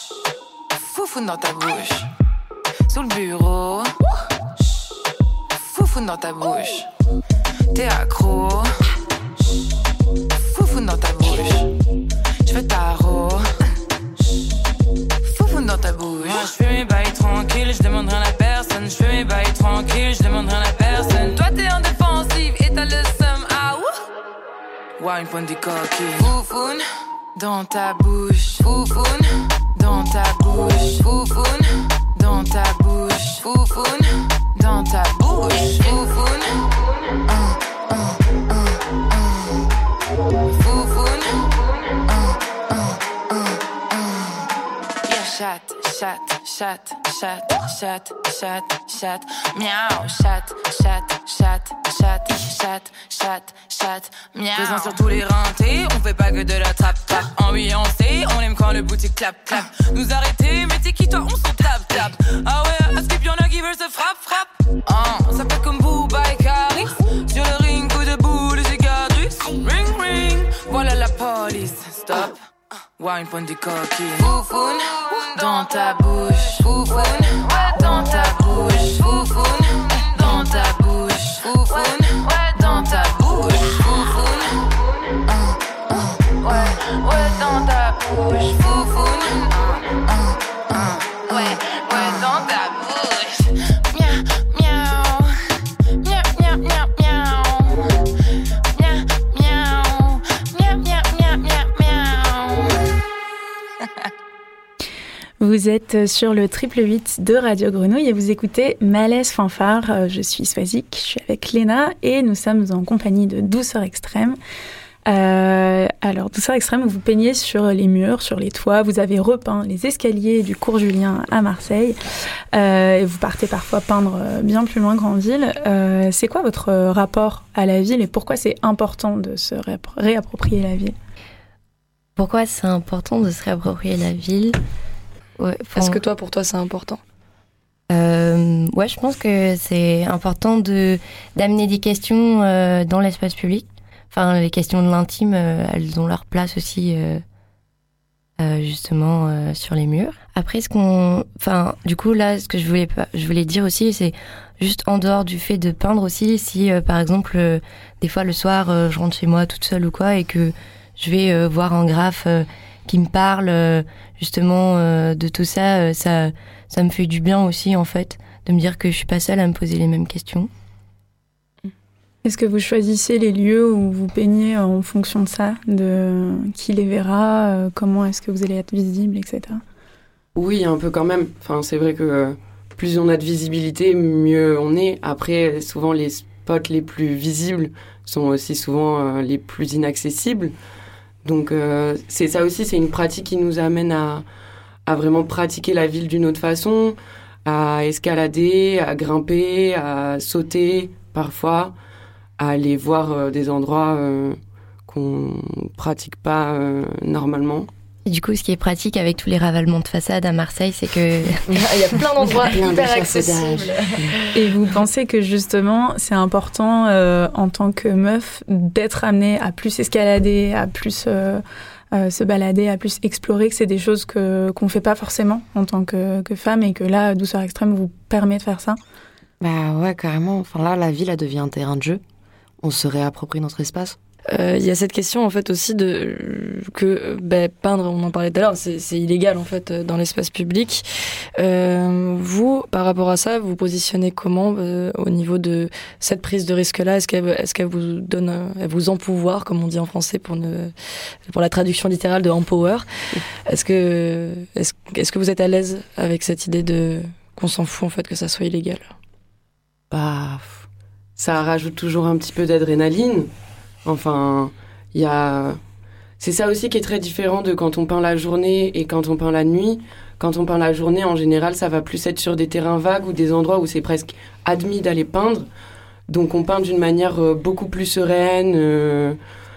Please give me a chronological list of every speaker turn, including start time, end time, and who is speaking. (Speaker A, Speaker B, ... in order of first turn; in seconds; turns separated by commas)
Speaker A: 0.7-2.1, Speaker A: 2.9-4.0, Speaker A: 5.5-6.9, Speaker A: 7.7-8.8, Speaker A: 10.4-11.7, Speaker A: 12.4-13.5, Speaker A: 15.2-23.9, Speaker A: 25.0-36.7, Speaker A: 37.3-39.5, Speaker A: 40.5-41.5, Speaker A: 42.1-44.4, Speaker A: 45.0-72.4, Speaker A: 73.0-84.7, Speaker A: 85.3-95.3, Speaker A: 96.0-97.8, Speaker A: 98.7-102.8, Speaker B: 105.4-114.4, Speaker B: 115.0-122.0, Speaker B: 122.5-130.9, Speaker C: 132.2-134.6, Speaker C: 135.4-136.0, Speaker D: 135.7-137.0, Speaker C: 137.9-147.2, Speaker C: 148.4-170.5, Speaker B: 172.2-179.6, Speaker E: 180.3-190.5, Speaker E: 191.2-194.2, Speaker E: 194.8-201.7, Speaker E: 202.4-207.7, Speaker C: 208.1-212.0, Speaker D: 211.5-214.4, Speaker E: 212.4-213.7, Speaker B: 214.3-228.8, Speaker F: 229.4-232.0, Speaker F: 232.6-234.0, Speaker D: 234.3-240.8, Speaker D: 241.4-250.7, Speaker D: 251.2-258.9, Speaker E: 259.9-260.6, Speaker E: 261.2-263.3, Speaker E: 263.8-265.6, Speaker E: 266.2-275.4, Speaker E: 276.1-279.2